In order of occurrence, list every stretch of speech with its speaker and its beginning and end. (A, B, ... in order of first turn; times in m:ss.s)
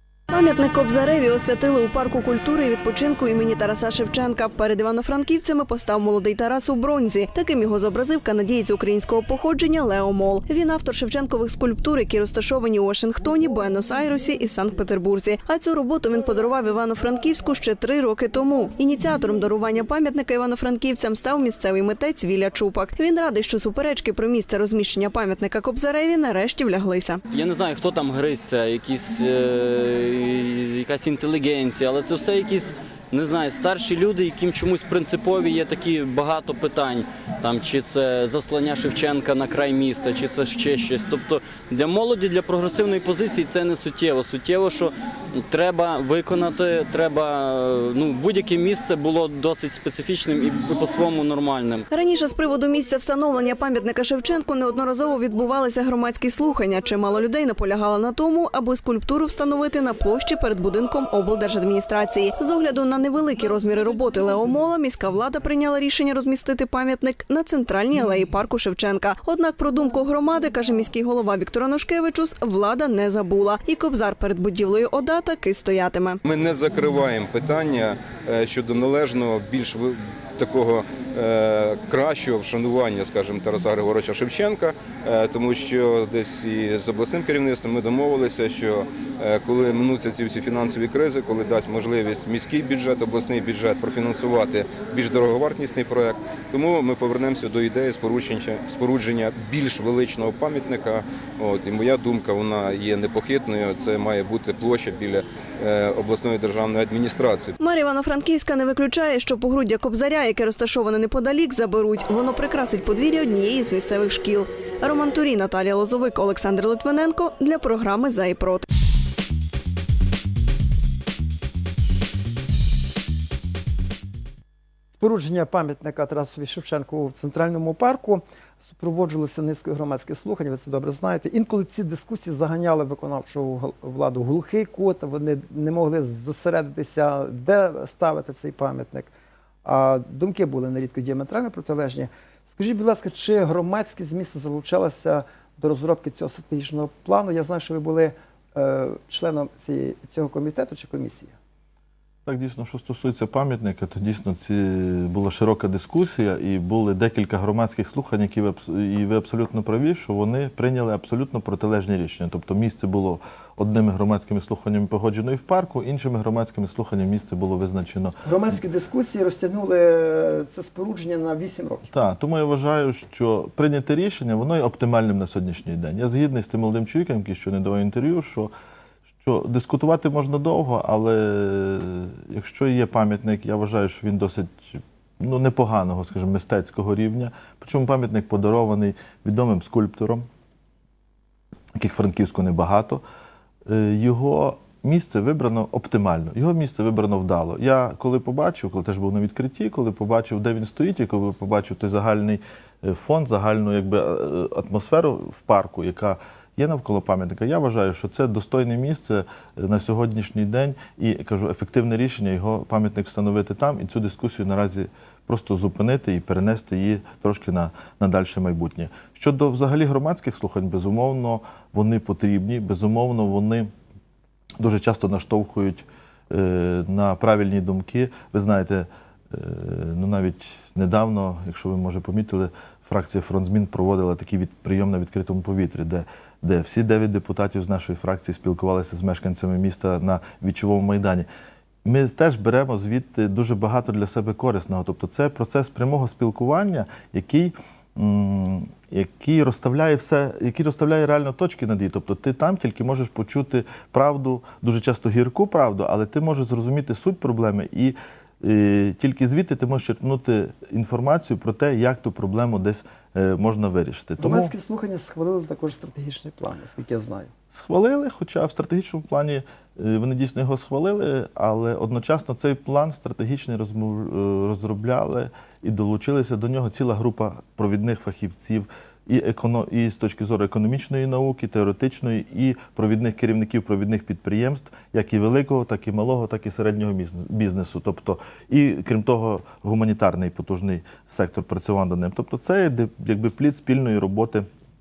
0:00.3-0:27.2 A
0:27.3-0:51.8 B
0:51.9-1:16.2 A
1:16.2-1:47.6 C
1:47.6-1:58.6 A
2:05.0-2:19.1 D
2:19.6-2:31.3 D
2:32.3-2:48.2 E
2:48.2-2:51.9 D
2:51.9-2:58.5 E
2:59.2-3:10.3 E
3:11.8-3:13.0 E
3:13.7-3:43.7 E
3:44.6-4:01.3 E
4:01.8-4:24.5 E
4:24.2-4:27.3 D
4:27.5-4:54.5 E